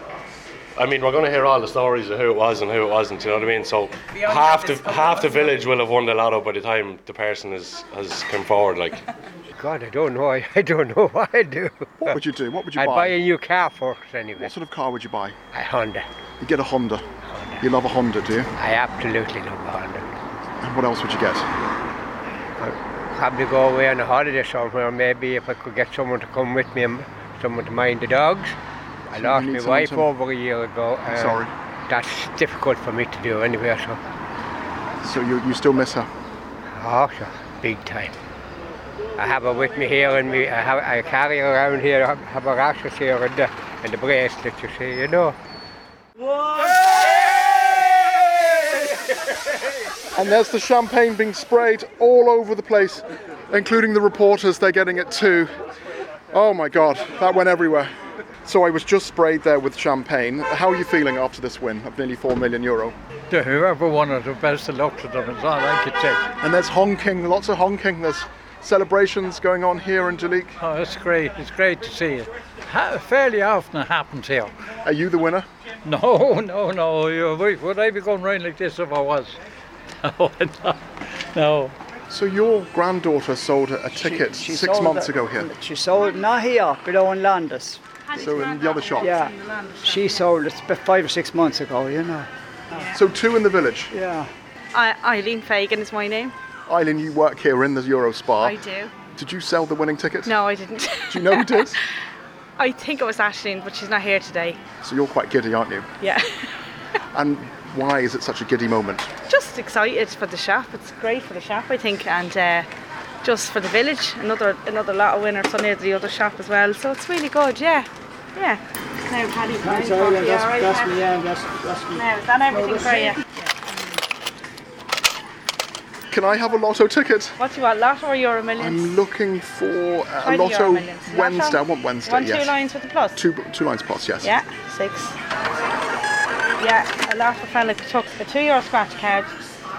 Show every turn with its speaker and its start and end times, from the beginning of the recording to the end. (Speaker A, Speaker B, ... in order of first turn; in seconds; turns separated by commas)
Speaker A: 0.8-9.0, Speaker B: 9.6-12.2, Speaker C: 12.0-13.2, Speaker B: 12.7-14.5, Speaker C: 14.4-15.3, Speaker B: 15.5-16.1, Speaker C: 16.4-17.0, Speaker C: 17.6-18.5, Speaker B: 18.6-20.1, Speaker C: 20.6-21.5, Speaker B: 22.6-28.5, Speaker B: 29.1-34.0, Speaker C: 29.1-30.1, Speaker C: 31.1-31.5, Speaker C: 35.0-36.1, Speaker B: 36.8-38.1, Speaker B: 39.2-45.4, Speaker C: 50.2-55.5, Speaker C: 56.3-57.9, Speaker C: 58.4-62.9, Speaker D: 63.3-66.2, Speaker C: 66.4-70.5, Speaker D: 70.6-74.5, Speaker C: 74.8-75.5, Speaker D: 75.8-79.3, Speaker D: 80.1-80.8, Speaker D: 81.3-81.7, Speaker C: 82.1-85.5, Speaker E: 83.9-88.3, Speaker C: 88.2-89.2, Speaker F: 88.2-90.2, Speaker E: 89.0-92.9, Speaker C: 92.9-93.9, Speaker E: 93.9-94.3, Speaker F: 94.7-96.3, Speaker C: 96.7-98.5, Speaker F: 98.4-98.9, Speaker C: 99.1-100.3, Speaker F: 100.2-101.8, Speaker C: 101.1-101.8, Speaker F: 102.6-104.6, Speaker C: 104.8-105.8, Speaker F: 106.0-106.2, Speaker C: 107.1-109.1, Speaker F: 109.3-112.7, Speaker F: 113.2-121.1, Speaker E: 119.6-122.0, Speaker F: 121.9-123.2, Speaker C: 126.1-127.3, Speaker F: 127.4-129.0, Speaker C: 128.6-132.5, Speaker F: 130.2-133.2, Speaker C: 133.2-134.4, Speaker F: 134.2-135.1, Speaker F: 136.6-139.3